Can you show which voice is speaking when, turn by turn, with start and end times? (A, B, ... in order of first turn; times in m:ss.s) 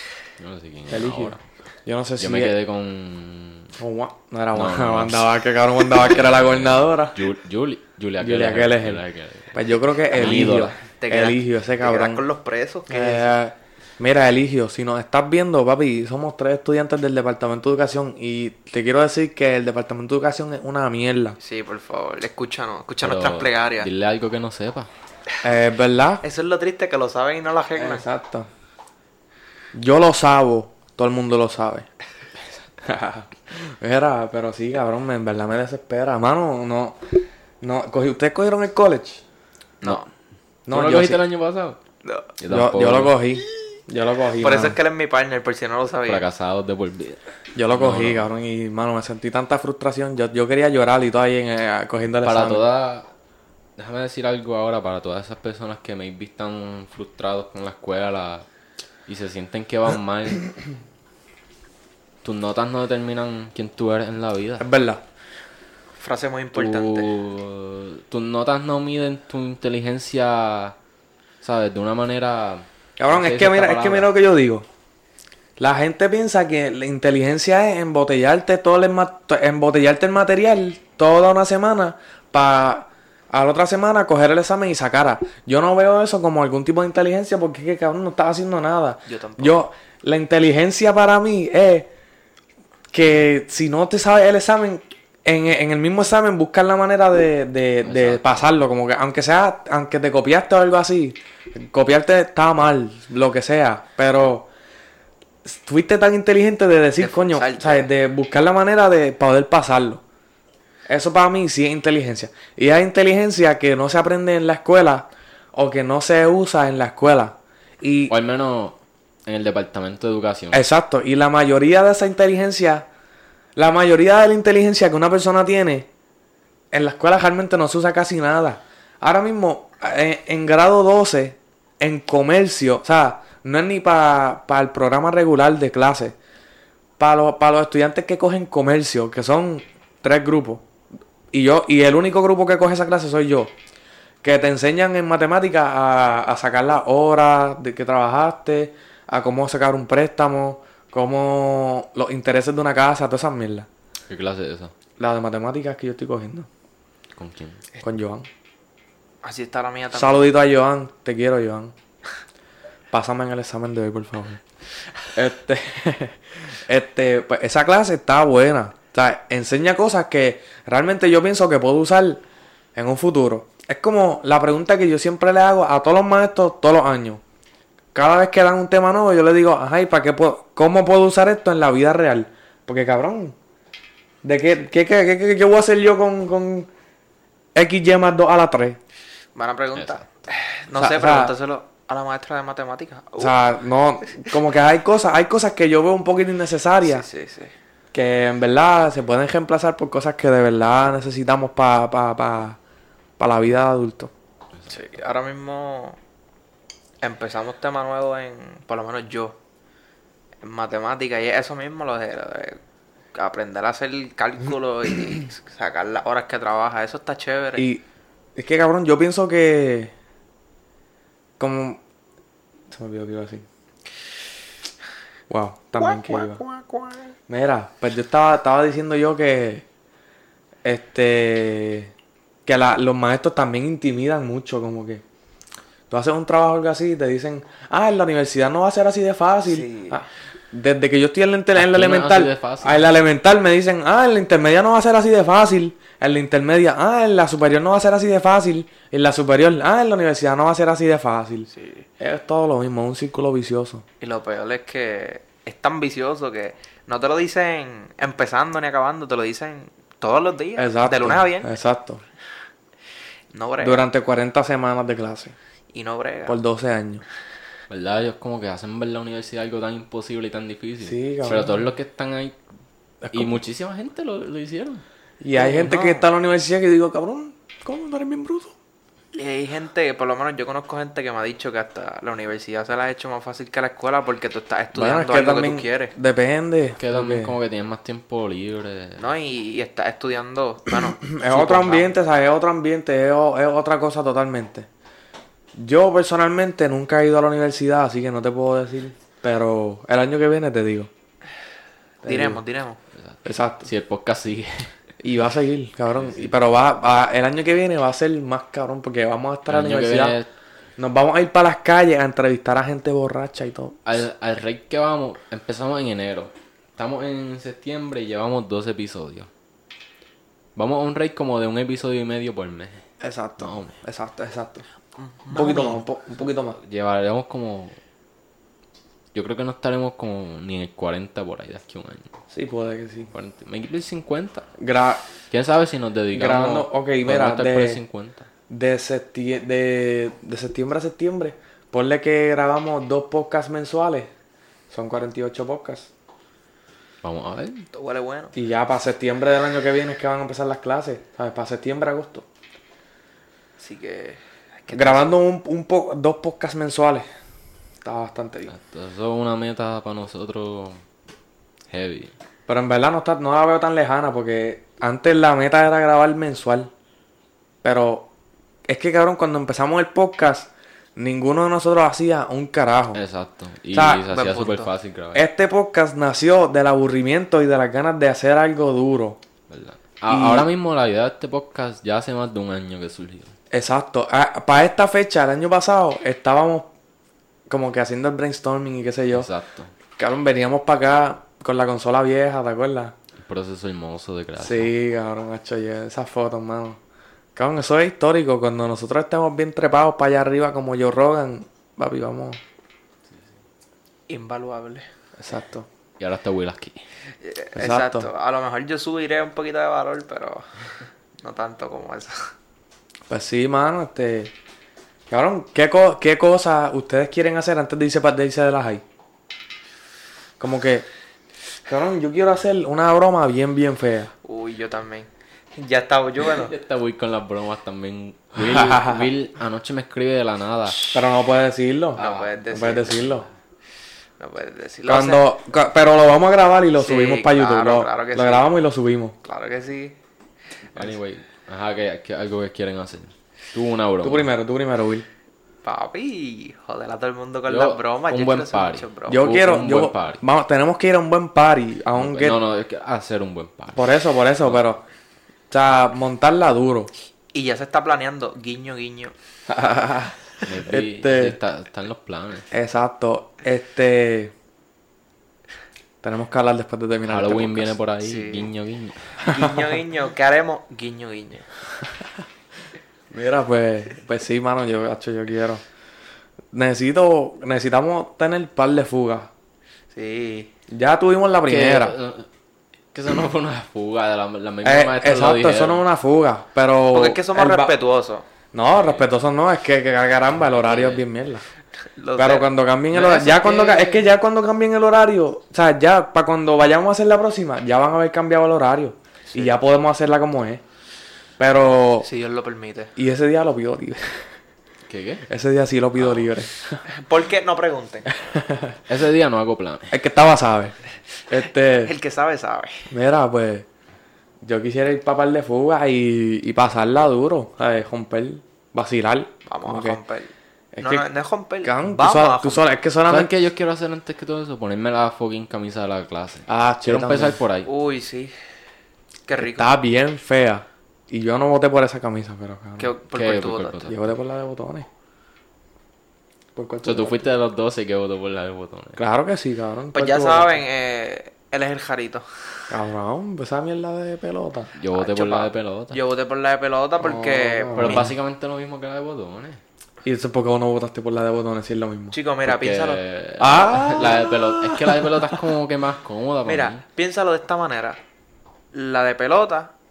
0:00.4-0:01.4 A
0:00.9-0:02.6 B
0:02.2-0:03.7 A
0:03.8-0:07.2 B
0:04.5-0:05.3 A
0:06.0-0:10.8 A
0:08.2-0:09.0 B
0:09.5-0:12.2 B
0:11.0-0:13.3 C
0:12.9-0:21.4 B
0:21.4-0:23.9 C
0:23.0-0:24.9 A
0:25.4-0:26.2 B
0:26.2-0:28.1 C
0:27.8-0:28.5 B
0:29.7-0:31.9 B
0:32.8-0:39.2 B
0:39.8-0:40.1 C
0:40.7-0:41.2 B
0:40.7-0:41.8 A
0:42.0-0:42.3 C
0:42.4-0:43.2 A
0:42.5-0:44.8 B
0:44.4-0:46.2 C
0:46.1-0:48.3 A
0:47.5-0:52.7 B
0:52.2-0:53.1 A
0:53.8-0:58.4 A
0:59.1-1:00.5 A
1:02.2-1:04.6 A
1:04.6-1:05.0 B
1:06.0-1:07.1 C
1:06.5-1:10.7 A
1:11.4-1:14.1 A
1:13.0-1:14.6 B
1:15.6-1:31.9 B
1:29.1-1:29.6 C
1:32.9-1:44.5 B
1:37.8-1:38.5 A
1:45.4-1:50.0 B
1:47.0-1:47.9 C
1:50.9-1:58.1 B
1:58.1-2:00.6 A
2:00.5-2:02.9 B
2:03.6-2:05.9 B
2:06.7-2:16.2 B
2:17.0-2:20.6 B
2:21.3-2:23.5 B
2:24.2-2:33.7 B
2:34.1-2:34.7 A
2:35.0-2:36.5 B
2:37.2-2:37.6 A
2:37.8-2:38.3 B
2:39.2-2:40.3 C
2:39.9-2:41.7 B
2:42.9-2:44.4 B
2:45.1-2:52.2 B
2:52.7-2:57.2 B
2:57.9-3:03.3 B
3:04.2-3:06.7 B
3:07.5-3:08.8 B
3:09.3-3:13.3 C
3:09.8-3:10.0 A
3:10.7-3:11.3 B
3:13.2-3:17.0 B
3:16.8-3:17.5 C
3:17.9-3:22.6 B
3:23.2-3:24.1 B
3:24.7-3:26.0 C
3:27.0-3:29.4 C
3:30.4-3:32.6 C
3:33.1-3:37.7 C
3:37.6-3:37.8 B
3:38.4-3:39.9 B
3:41.4-3:41.8 B
3:42.7-3:43.4 B
3:45.3-3:46.4 B
3:45.8-3:47.0 C
3:47.3-3:49.6 B
3:50.6-3:51.9 B
3:52.4-3:55.0 B
3:55.9-4:13.8 B
3:59.4-4:00.0 C
4:01.5-4:02.9 A
4:11.5-4:11.8 C
4:14.0-4:21.5 C
4:20.6-4:22.0 B
4:23.3-4:23.9 C
4:23.6-4:25.3 B
4:25.7-4:26.4 C
4:26.3-4:27.0 B
4:27.7-4:32.4 A
4:30.8-4:31.6 B
4:33.0-4:33.4 B
4:33.1-4:34.8 A
4:35.2-4:38.5 B
4:35.4-4:36.1 C
4:39.1-4:45.9 C
4:44.7-4:47.3 B
4:46.8-4:49.0 A
4:49.0-4:51.9 C
4:50.8-4:54.7 B
4:55.5-5:00.9 B
5:02.0-5:02.4 B
5:02.0-5:02.8 C
5:03.0-5:04.7 A
5:03.2-5:03.7 B
5:05.0-5:10.2 B
5:05.9-5:06.3 A
5:09.5-5:10.3 A
5:10.8-5:13.8 B
5:13.8-5:19.3 A
5:20.6-5:22.8 A
5:23.0-5:24.6 B
5:23.4-5:23.7 A
5:25.0-5:25.8 C
5:25.3-5:26.6 B
5:26.6-5:27.8 A
5:29.1-5:32.1 A
5:32.3-5:33.1 B
5:33.1-5:34.5 A
5:34.6-5:35.0 B
5:35.3-5:38.2 A
5:36.1-5:37.8 B
5:38.5-5:44.1 B
5:44.7-5:45.9 B
5:47.0-5:47.6 A
5:47.7-5:48.3 C
5:48.3-5:52.2 B
5:53.6-5:55.2 C
5:54.7-5:57.0 B
5:57.8-5:58.5 B
5:58.5-6:00.8 A
6:01.7-6:02.1 A
6:02.5-6:06.7 B
6:07.6-6:08.1 B
6:08.7-6:13.0 B
6:12.9-6:15.2 A
6:13.7-6:14.1 B
6:14.1-6:14.7 C
6:15.1-6:19.2 B
6:19.5-6:23.3 A
6:20.1-6:20.5 B
6:23.5-6:26.7 B
6:27.5-6:29.3 B
6:29.1-6:29.7 A
6:30.0-6:32.9 B
6:33.2-6:34.7 A
6:34.4-6:36.8 B
6:37.4-6:42.4 B
6:44.1-6:44.8 C
6:45.2-6:45.7 B
6:46.0-6:46.8 A
6:47.2-6:50.4 C
6:47.6-6:48.1 B
6:51.2-6:52.3 C
6:53.1-6:54.3 B
6:55.1-6:58.8 B
7:00.4-7:00.9 B
7:01.7-7:04.1 B
7:04.2-7:06.5 C
7:06.3-7:10.8 A
7:08.4-7:09.1 B
7:10.9-7:13.2 B
7:12.0-7:13.0 C
7:12.0-7:13.3 A
7:14.2-7:15.2 C
7:14.8-7:19.1 B
7:16.8-7:18.5 C
7:19.2-7:19.9 C
7:20.7-7:24.3 A
7:24.0-7:25.0 B
7:25.6-7:29.2 C
7:27.5-7:30.2 A
7:29.1-7:32.4 B
7:31.9-7:33.9 A
7:33.7-7:34.8 B
7:35.5-7:36.9 B
7:37.3-7:39.1 C
7:39.5-7:41.4 B
7:40.4-7:42.5 A
7:42.5-7:44.3 B
7:46.0-7:47.8 B
7:47.1-7:49.2 A
7:48.0-7:48.5 C
7:49.2-7:49.6 B
7:49.2-7:51.5 C
7:53.1-7:55.6 B
7:56.5-7:59.3 B
7:59.9-8:00.5 C
8:00.7-8:02.0 B
8:01.5-8:02.3 A
8:02.9-8:05.8 A
8:04.6-8:07.7 B
8:06.9-8:08.2 C
8:08.5-8:11.4 B
8:08.7-8:09.1 A
8:10.5-8:11.0 A
8:12.0-8:12.5 C
8:12.2-8:20.6 B
8:12.9-8:14.0 A
8:21.4-8:22.1 B
8:22.0-8:22.9 C
8:23.0-8:24.3 B
8:24.9-8:25.2 A
8:25.3-8:26.8 B
8:26.9-8:28.1 C
8:28.2-8:28.8 B
8:28.9-8:29.9 A
8:29.9-8:30.7 B
8:31.3-8:31.9 B
8:31.7-8:32.9 C
8:32.9-8:33.6 B
8:34.4-8:40.0 B
8:39.5-8:42.7 C
8:40.7-8:41.0 B
8:41.6-8:43.3 B
8:43.1-8:47.7 A
8:46.5-8:47.4 B
8:47.6-8:48.3 C
8:49.3-8:49.7 C
8:49.4-8:52.9 B
8:52.8-8:53.8 C
8:53.1-8:54.1 A
8:53.8-8:54.9 B
8:56.5-8:57.3 B
8:56.8-8:59.0 A
8:59.0-9:00.6 B
8:59.9-9:02.6 C
9:02.7-9:04.7 B
9:04.8-9:06.0 A
9:04.9-9:08.1 C
9:07.0-9:08.1 B
9:07.7-9:09.6 A
9:10.0-9:12.2 B
9:12.1-9:13.0 C
9:12.4-9:16.8 A
9:13.4-9:15.4 B
9:16.4-9:18.0 C
9:18.7-9:19.7 C